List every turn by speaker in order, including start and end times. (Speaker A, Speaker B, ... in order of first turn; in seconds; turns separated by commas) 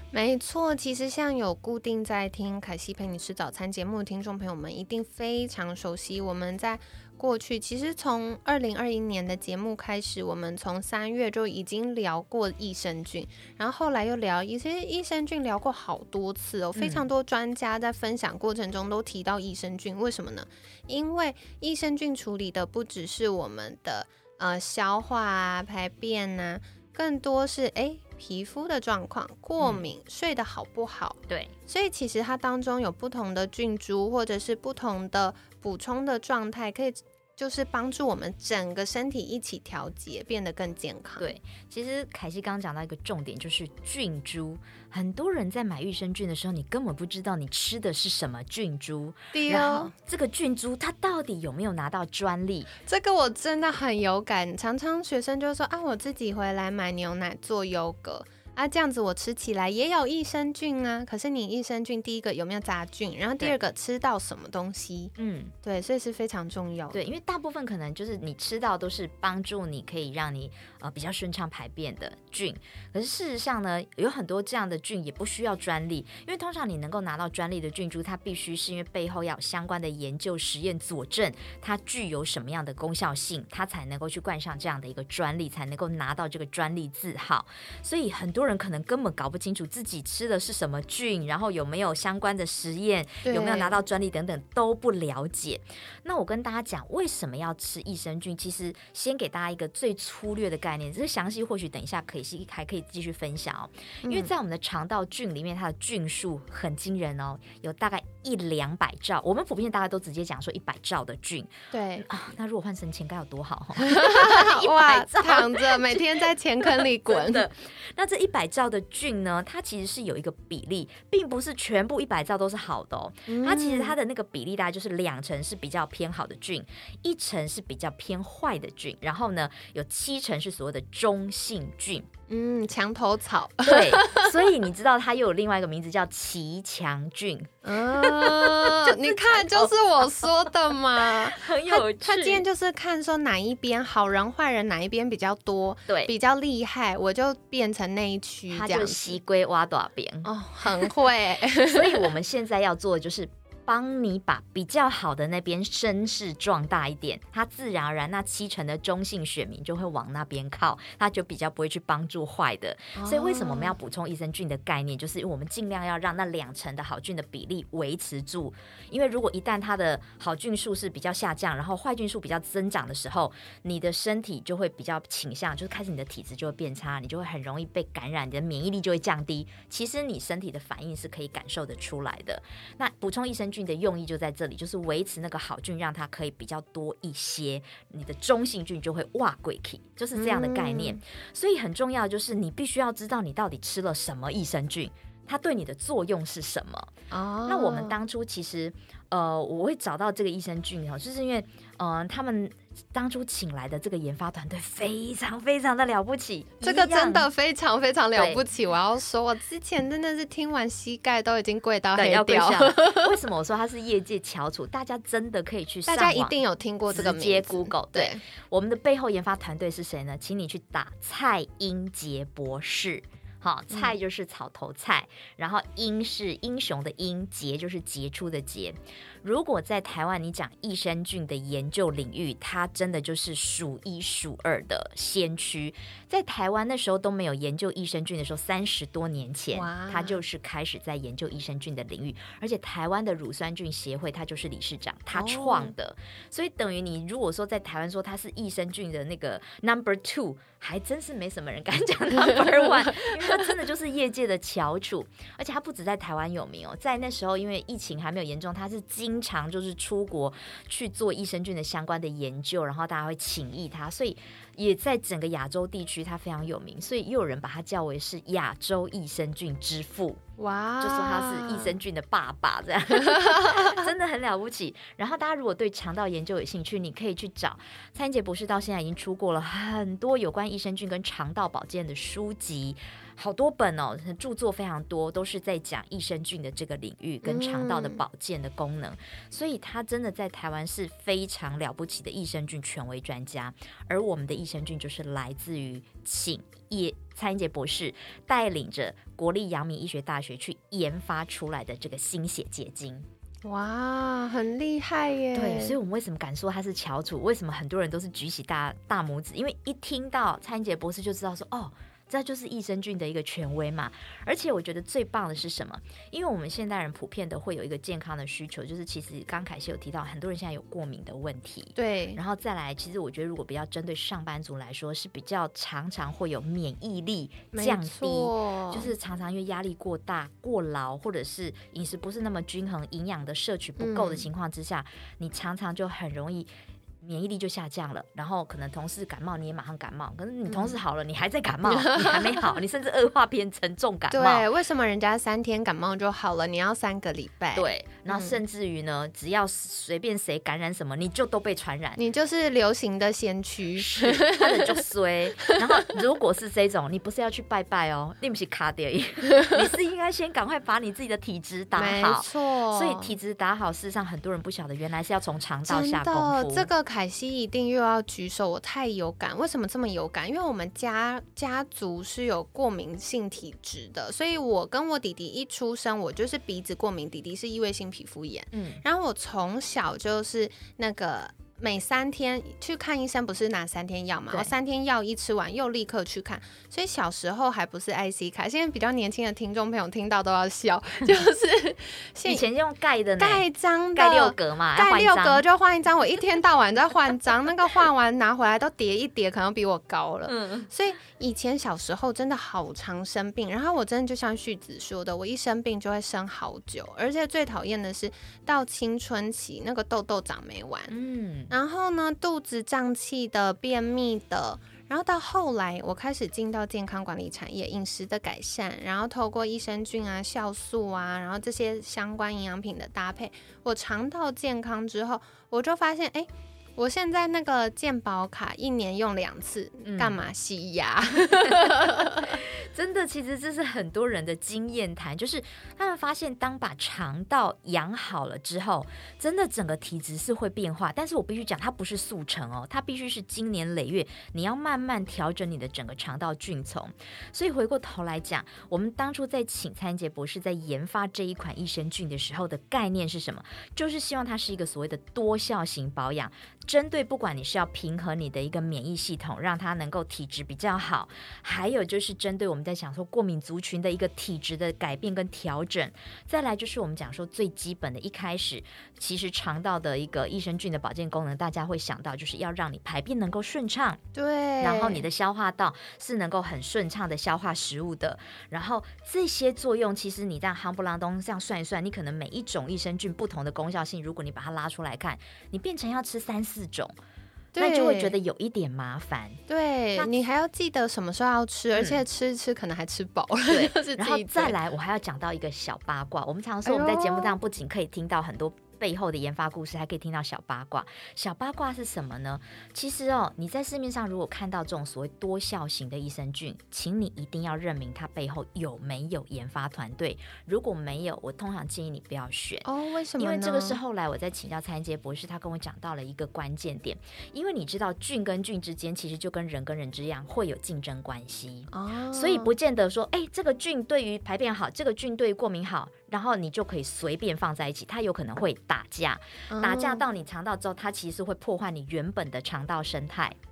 Speaker A: 0.1-41.3, Speaker B: 16.8-17.1, Speaker B: 41.2-52.7, Speaker A: 49.3-49.9, Speaker A: 52.9-67.0, Speaker B: 65.2-65.5, Speaker B: 66.9-132.1, Speaker A: 93.2-93.8, Speaker A: 104.0-104.3, Speaker A: 111.7-112.0, Speaker A: 113.8-117.5, Speaker A: 123.3-124.0, Speaker A: 132.3-134.3, Speaker B: 133.6-139.7, Speaker A: 137.6-149.2, Speaker B: 141.0-142.4, Speaker B: 148.5-150.9, Speaker A: 150.2-152.1, Speaker B: 151.6-196.9, Speaker A: 162.9-163.8, Speaker A: 190.2-191.0, Speaker A: 197.1-197.9, Speaker B: 197.4-207.3, Speaker A: 206.6-213.1, Speaker B: 208.1-208.4, Speaker B: 211.9-216.4, Speaker A: 215.9-218.2, Speaker B: 216.9-270.2, Speaker A: 239.5-240.2, Speaker A: 245.1-245.7, Speaker A: 252.2-253.4, Speaker A: 270.4-271.8, Speaker B: 270.8-303.1, Speaker A: 272.9-273.8, Speaker A: 287.2-288.0, Speaker A: 303.4-305.8, Speaker B: 305.3-344.4, Speaker A: 321.8-322.2, Speaker A: 327.5-328.9, Speaker A: 333.8-334.2, Speaker A: 340.5-340.8, Speaker A: 341.9-342.2, Speaker A: 344.1-348.4, Speaker B: 347.5-352.0, Speaker A: 352.0-354.8, Speaker B: 353.8-366.7, Speaker A: 361.8-363.1, Speaker A: 365.7-392.4, Speaker B: 378.5-378.8, Speaker B: 392.2-395.4, Speaker A: 393.2-410.9, Speaker B: 400.2-400.7, Speaker B: 410.9-411.5, Speaker A: 411.5-432.4, Speaker B: 429.8-430.2, Speaker B: 431.4-474.0, Speaker A: 474.1-475.0, Speaker B: 474.6-486.9, Speaker A: 487.5-488.1, Speaker B: 487.6-489.4, Speaker A: 489.5-494.6, Speaker B: 491.8-492.0, Speaker B: 493.5-512.7, Speaker A: 496.6-497.3, Speaker A: 512.6-513.8, Speaker B: 513.2-533.4, Speaker A: 521.7-522.5, Speaker A: 529.5-530.0